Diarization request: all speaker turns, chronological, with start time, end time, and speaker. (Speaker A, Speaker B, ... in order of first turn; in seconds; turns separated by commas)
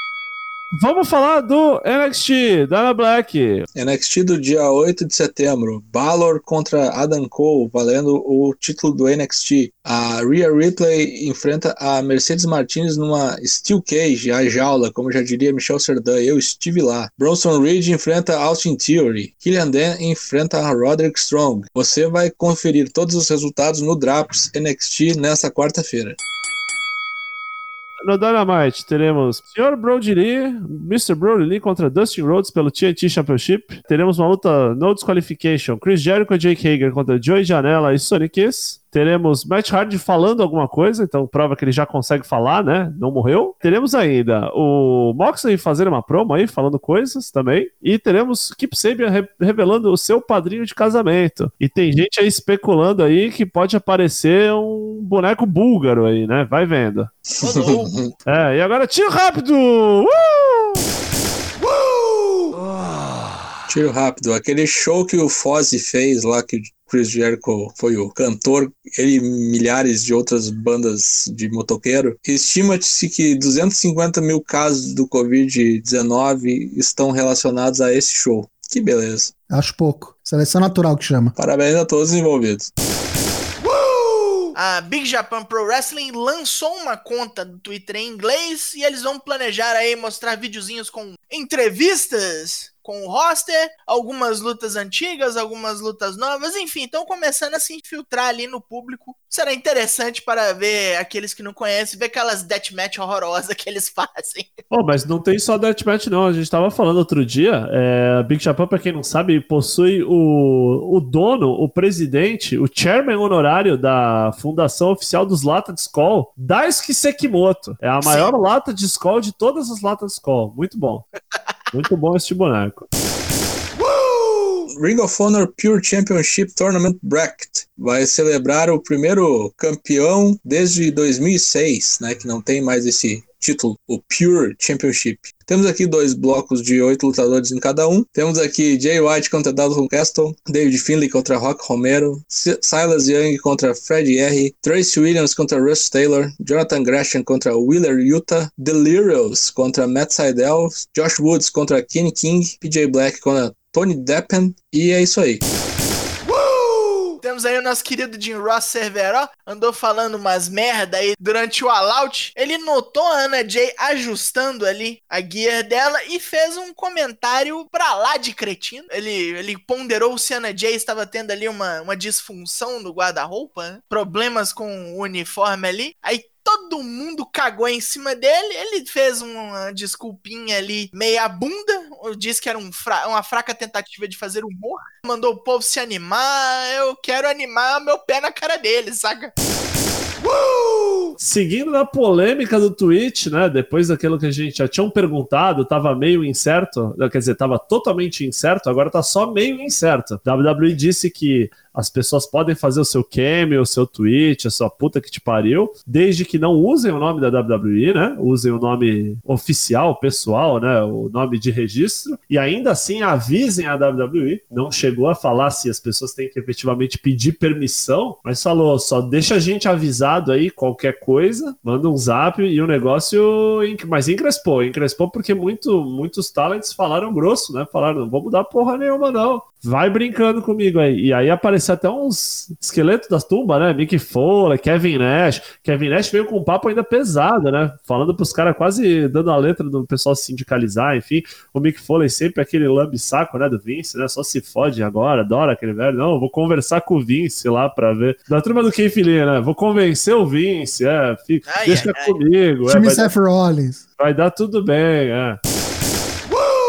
Speaker A: 0.7-3.6, Speaker B: 3.7-26.2, Speaker A: 28.0-57.1, Speaker B: 57.3-58.1, Speaker C: 57.4-57.9, Speaker A: 58.2-60.8, Speaker B: 63.7-79.3, Speaker D: 79.5-81.3, Speaker B: 81.4-82.7, Speaker C: 84.5-104.5, Speaker A: 104.7-121.0, Speaker C: 118.0-118.3, Speaker A: 121.7-122.9, Speaker C: 123.8-124.2, Speaker B: 124.7-155.4, Speaker C: 156.2-189.3, Speaker C: 190.2-191.2, Speaker A: 191.2-253.1, Speaker C: 251.5-252.2, Speaker D: 252.7-253.8, Speaker A: 254.0-255.4